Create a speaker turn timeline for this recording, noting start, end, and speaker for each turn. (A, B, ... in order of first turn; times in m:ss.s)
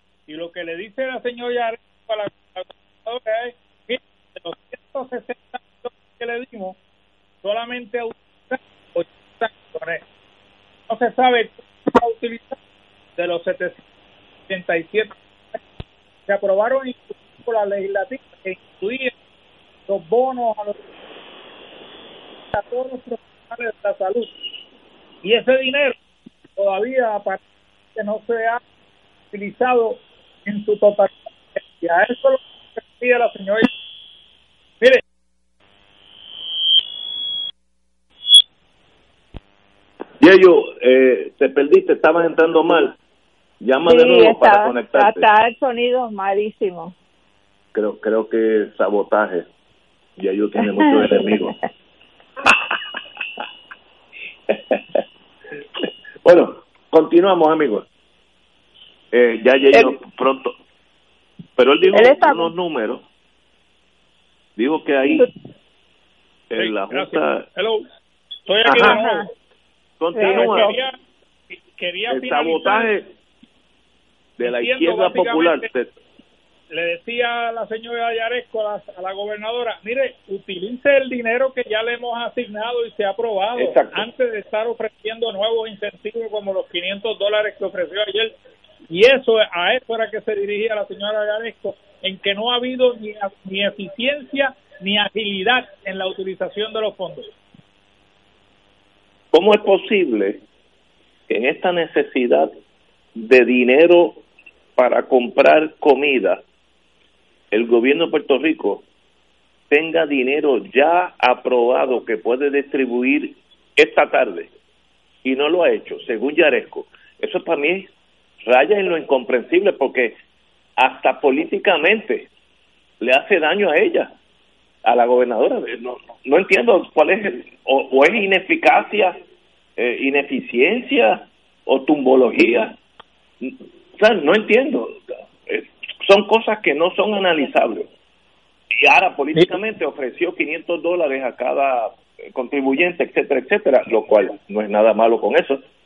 0:00.3-0:06.8 A
0:07.4-0:10.0 A
0:10.9-0:12.6 A
0:13.2-0:13.8 A
0:14.5-0:15.6 A
0:16.3-0:19.1 A
0:19.9-0:20.8 A
0:22.5-0:24.3 A
0:25.2-0:26.0 A
0:26.6-0:27.4 A
0:27.9-0:28.6 A
0:29.3-0:33.7 A
0:40.2-0:43.0 B
0:43.6-0:45.3 B
0:43.9-0:46.9 C
0:47.7-0:49.5 B
0:50.2-0:51.6 B
0:54.5-0:54.8 B
0:56.2-0:57.8 B
0:59.1-1:00.6 B
1:01.6-1:03.0 B
1:01.9-1:02.5 C
1:04.6-1:05.3 B
1:06.5-1:07.4 B
1:06.6-1:07.8 A
1:08.5-1:09.3 A
1:08.7-1:09.0 B
1:08.8-1:09.3 C
1:10.0-1:10.7 B
1:10.2-1:11.0 A
1:10.2-1:10.7 C
1:11.7-1:13.0 A
1:12.1-1:13.1 B
1:14.4-1:15.9 B
1:14.4-1:15.7 A
1:16.7-1:28.3 A
1:23.6-1:24.1 B
1:28.9-1:37.3 A
1:39.3-1:40.4 B
1:41.3-1:42.5 B
1:43.2-1:44.2 B
1:44.8-1:46.4 B
1:47.5-1:48.8 B
1:49.7-1:54.5 B
1:55.2-1:57.9 B
1:58.4-2:00.2 B
2:00.8-2:02.3 B
2:03.0-2:04.1 B
2:04.8-2:09.2 B
2:09.8-2:12.8 B
2:13.4-2:17.9 B
2:18.8-2:25.6 B